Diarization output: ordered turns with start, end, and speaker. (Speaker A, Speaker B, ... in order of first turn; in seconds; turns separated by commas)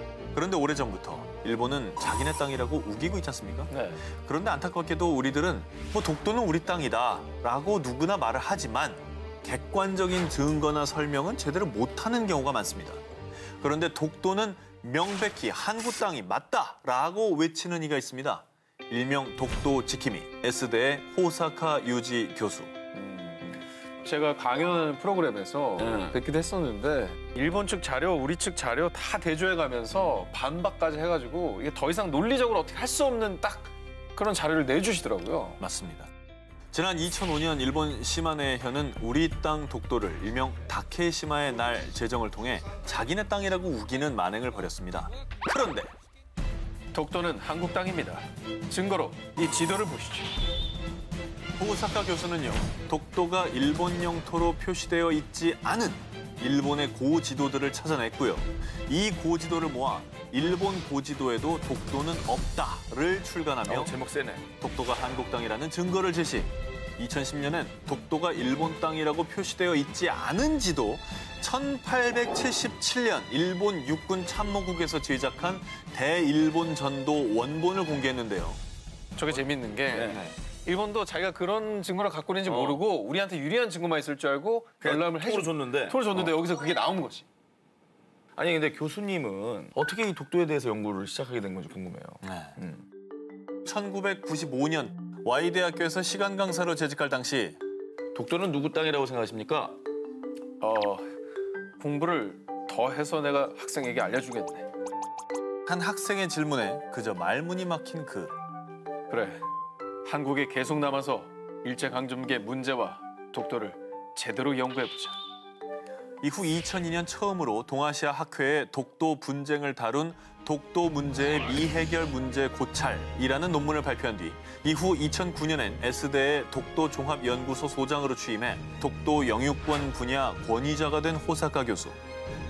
Speaker A: 0.3-13.0, Speaker B: 3.7-4.0, Speaker A: 13.6-22.8, Speaker B: 22.9-35.6, Speaker A: 35.6-36.1, Speaker A: 36.7-45.9, Speaker B: 46.9-50.4, Speaker A: 51.6-63.9, Speaker C: 63.7-64.4, Speaker A: 64.6-78.6, Speaker B: 79.2-87.3, Speaker C: 79.9-80.2, Speaker C: 82.5-82.8, Speaker C: 84.8-86.3, Speaker C: 88.4-92.8, Speaker A: 92.2-92.6, Speaker A: 93.7-97.6, Speaker C: 98.2-99.8, Speaker B: 100.6-101.1, Speaker B: 101.8-104.7, Speaker A: 105.7-108.3, Speaker B: 109.1-109.4, Speaker B: 110.0-115.2, Speaker A: 116.2-132.0